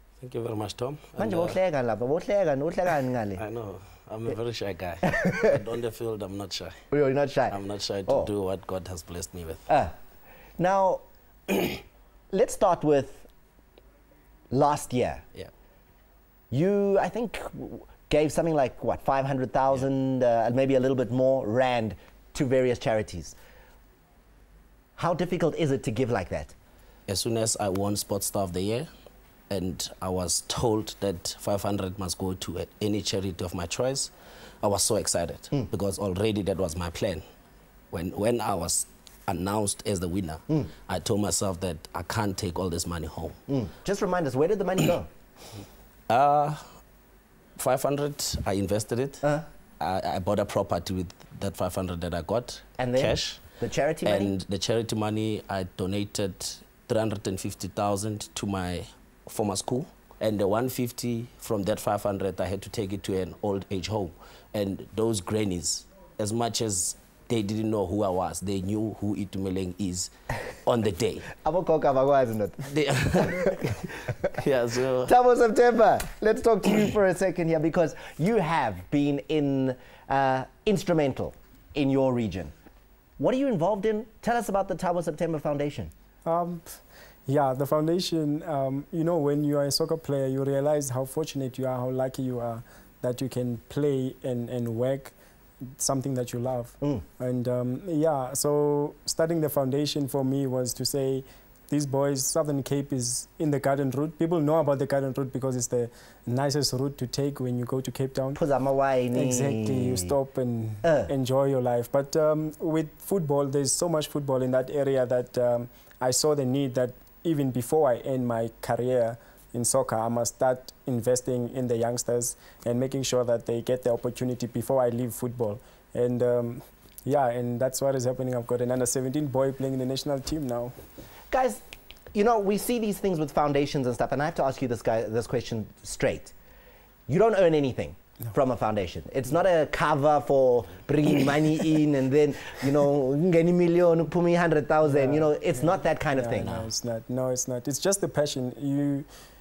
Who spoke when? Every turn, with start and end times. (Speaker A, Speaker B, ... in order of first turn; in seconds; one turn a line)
Speaker A: 0.2-1.6
Speaker B: 1.2-3.4
Speaker A: 3.4-6.8
Speaker B: 5.1-5.5
Speaker B: 6.9-8.3
Speaker A: 7.5-9.7
Speaker B: 9.7-9.9
Speaker B: 10.6-11.0
Speaker B: 12.3-13.3
Speaker B: 14.5-15.2
Speaker B: 16.5-23.4
Speaker B: 25.0-26.5
Speaker A: 27.1-28.9
Speaker A: 29.5-34.1
Speaker A: 34.6-37.2
Speaker A: 37.9-43.4
Speaker B: 43.5-45.1
Speaker A: 46.1-46.6
Speaker A: 47.6-49.3
Speaker A: 49.8-53.4
Speaker B: 52.8-54.3
Speaker A: 54.0-70.1
Speaker A: 70.7-71.3
Speaker B: 71.4-72.7
Speaker A: 72.7-75.1
Speaker B: 75.1-82.5
Speaker B: 83.2-85.9
Speaker C: 86.2-95.2
Speaker C: 95.7-108.4
Speaker B: 108.3-110.2
Speaker C: 109.1-130.8
Speaker B: 110.8-111.1
Speaker B: 131.3-131.6
Speaker B: 132.1-136.3
Speaker B: 137.1-146.7
Speaker C: 144.8-149.1